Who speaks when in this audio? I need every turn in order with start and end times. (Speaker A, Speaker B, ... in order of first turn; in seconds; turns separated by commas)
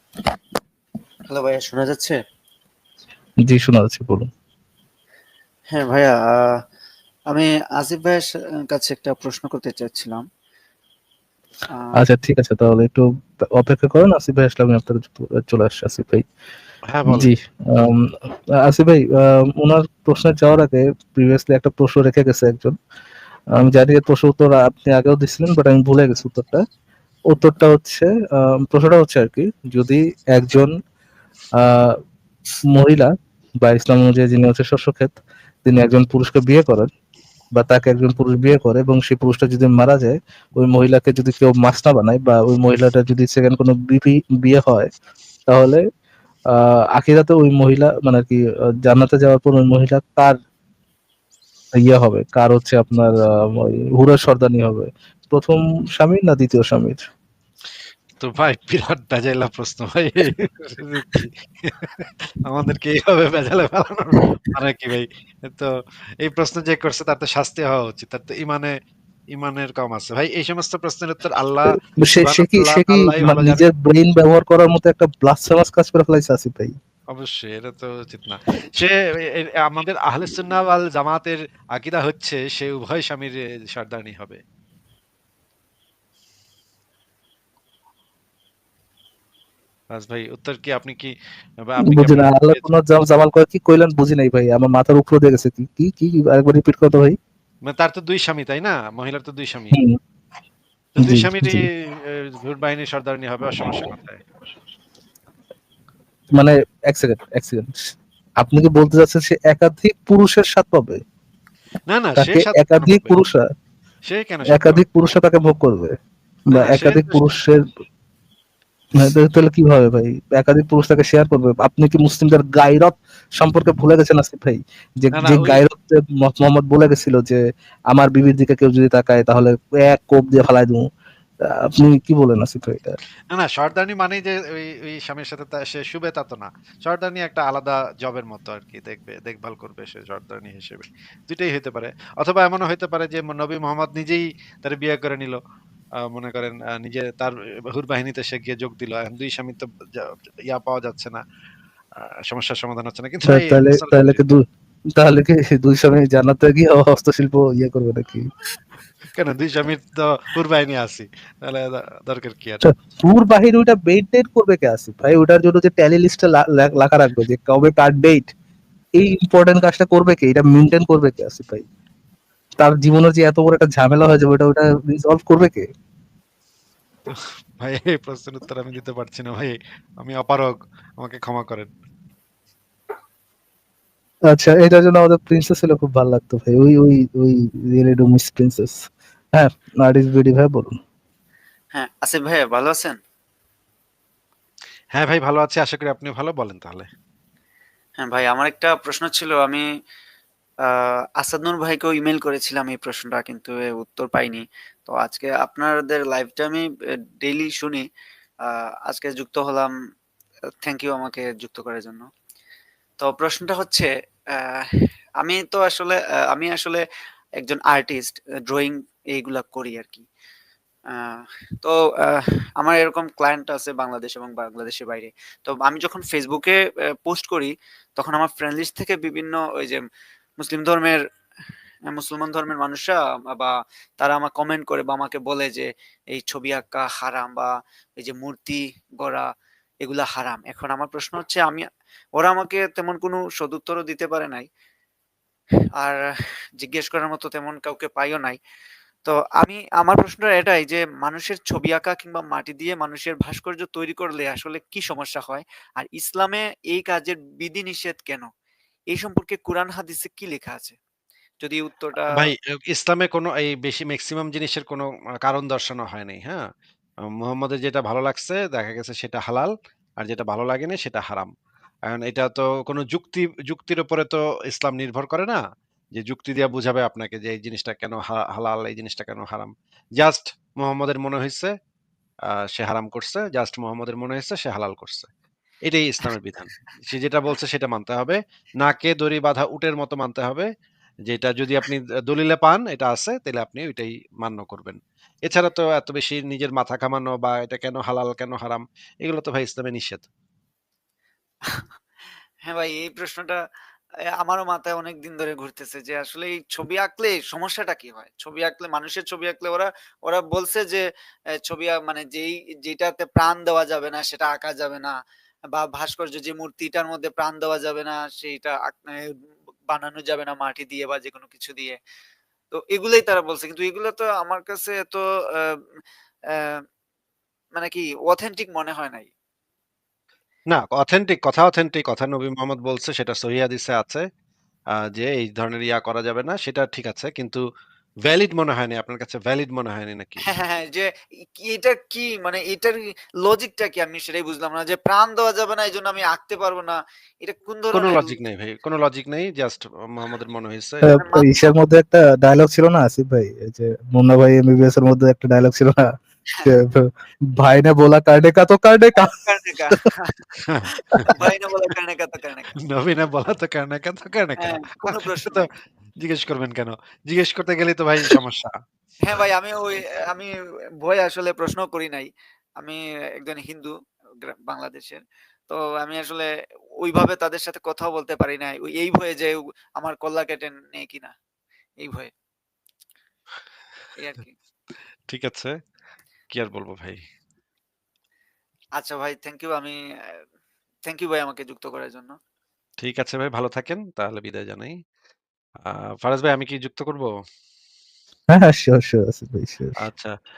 Speaker A: 1.3-2.2, Speaker B: 3.5-4.3, Speaker A: 5.7-6.4, Speaker A: 7.3-10.2, Speaker A: 11.7-12.0, Speaker B: 12.0-13.0, Speaker B: 13.6-16.3, Speaker C: 16.9-17.3, Speaker B: 17.1-18.1, Speaker B: 18.7-22.8, Speaker B: 23.6-26.6, Speaker B: 27.3-30.8, Speaker B: 31.6-32.0, Speaker B: 32.8-33.1, Speaker B: 33.6-36.9, Speaker B: 37.5-44.9, Speaker B: 45.5-45.8, Speaker B: 46.6-50.4, Speaker B: 51.7-57.1, Speaker C: 58.2-68.7, Speaker C: 69.3-73.7, Speaker B: 72.0-76.8, Speaker C: 77.1-84.4, Speaker C: 89.9-91.1, Speaker C: 91.6-92.7, Speaker B: 91.9-97.2, Speaker C: 97.7-99.8, Speaker B: 99.7-100.0, Speaker C: 101.0-104.2, Speaker B: 101.0-101.7, Speaker B: 106.3-111.0, Speaker C: 111.9-113.2, Speaker B: 112.2-113.5, Speaker C: 114.1-114.8, Speaker B: 114.5-116.0, Speaker B: 116.5-117.6, Speaker C: 116.5-117.3, Speaker B: 119.0-127.4, Speaker C: 125.1-125.7, Speaker B: 127.9-130.9, Speaker B: 131.5-133.0, Speaker C: 133.3-145.4, Speaker C: 146.0-151.2, Speaker C: 151.9-154.2, Speaker B: 153.3-154.4, Speaker B: 155.0-158.3, Speaker C: 159.1-162.6, Speaker B: 162.6-168.3, Speaker B: 169.0-171.7, Speaker B: 172.6-175.7, Speaker C: 177.1-181.7, Speaker B: 184.3-190.8, Speaker A: 191.8-193.0, Speaker C: 194.9-196.9, Speaker A: 198.0-199.7, Speaker A: 200.7-206.7, Speaker A: 207.2-207.8, Speaker A: 208.9-209.7, Speaker A: 210.6-212.1, Speaker A: 213.0-214.6, Speaker A: 215.2-216.8, Speaker A: 217.4-220.1, Speaker A: 220.9-229.8, Speaker A: 230.4-231.0, Speaker A: 231.9-239.2, Speaker A: 239.8-241.7, Speaker A: 242.2-244.5, Speaker A: 246.6-248.4, Speaker A: 249.1-258.3, Speaker A: 258.9-260.8, Speaker A: 261.4-262.3, Speaker C: 262.1-266.4, Speaker C: 267.1-271.3, Speaker C: 271.9-275.4, Speaker C: 275.9-281.5, Speaker C: 282.3-285.1, Speaker C: 285.7-290.5, Speaker C: 291.1-300.1, Speaker A: 302.5-303.4, Speaker A: 304.2-310.8, Speaker A: 311.4-314.9, Speaker A: 315.5-319.0, Speaker A: 319.7-321.8, Speaker A: 322.5-325.6, Speaker A: 326.3-326.6, Speaker A: 327.6-329.1, Speaker C: 330.5-334.0, Speaker C: 334.8-337.4, Speaker C: 338.1-340.4, Speaker A: 340.3-348.2, Speaker C: 347.7-350.9, Speaker B: 350.9-355.9, Speaker A: 350.9-351.6, Speaker B: 356.4-356.9, Speaker B: 357.4-359.2, Speaker A: 359.1-360.2, Speaker C: 360.4-361.3, Speaker A: 361.1-362.5, Speaker C: 362.6-365.5, Speaker A: 364.4-365.5, Speaker C: 366.0-368.5, Speaker A: 369.1-370.3, Speaker A: 370.8-373.7, Speaker A: 374.3-376.3, Speaker A: 376.8-381.1, Speaker A: 381.8-382.1, Speaker A: 384.0-384.4, Speaker C: 385.1-385.5, Speaker C: 386.3-387.0, Speaker A: 388.8-390.2, Speaker A: 390.9-392.1, Speaker C: 392.8-394.8, Speaker C: 395.6-397.1, Speaker B: 398.3-399.8, Speaker C: 399.8-400.1